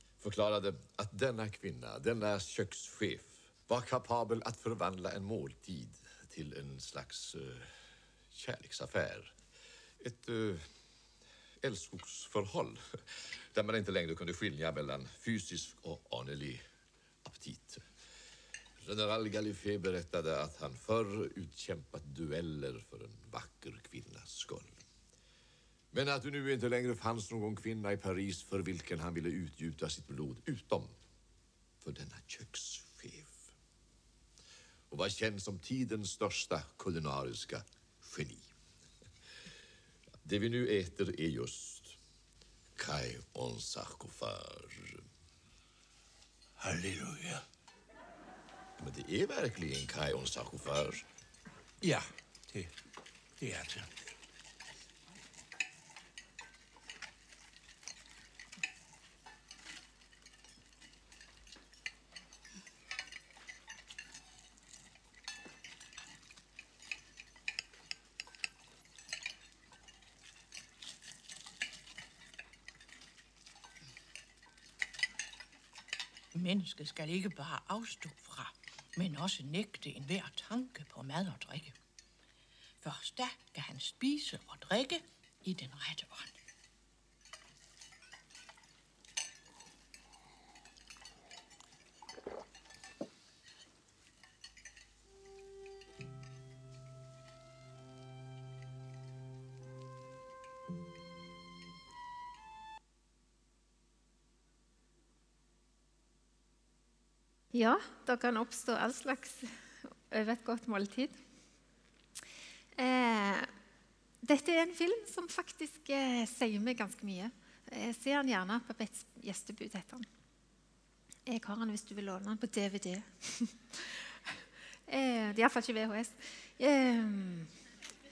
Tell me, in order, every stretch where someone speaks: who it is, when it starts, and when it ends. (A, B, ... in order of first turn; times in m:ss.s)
0:00.2-0:07.8 A
0:08.3-0:09.3 A
0:10.0-0:10.7 A
0:11.6-0:12.8 A
0:13.5-0:16.6 A
0:17.2-0:17.8 A
0:18.8-0:24.8 A
0:25.9-0:31.0 A
0:31.8-0:33.5 A
0:34.9-0:38.5 A
0:40.2-0:42.0 A
0:42.8-0:45.0 A
0:46.6-0:47.4 B
0:48.8-0:51.0 A
0:51.8-0:52.7 B
0:53.4-0:53.9 B
1:16.3-1:21.8 C
1:22.8-1:26.4 C
1:47.5-1:51.2 D
1:52.8-1:53.5 D
1:54.2-2:00.1 D
2:01.3-2:04.3 D
2:04.9-2:07.5 D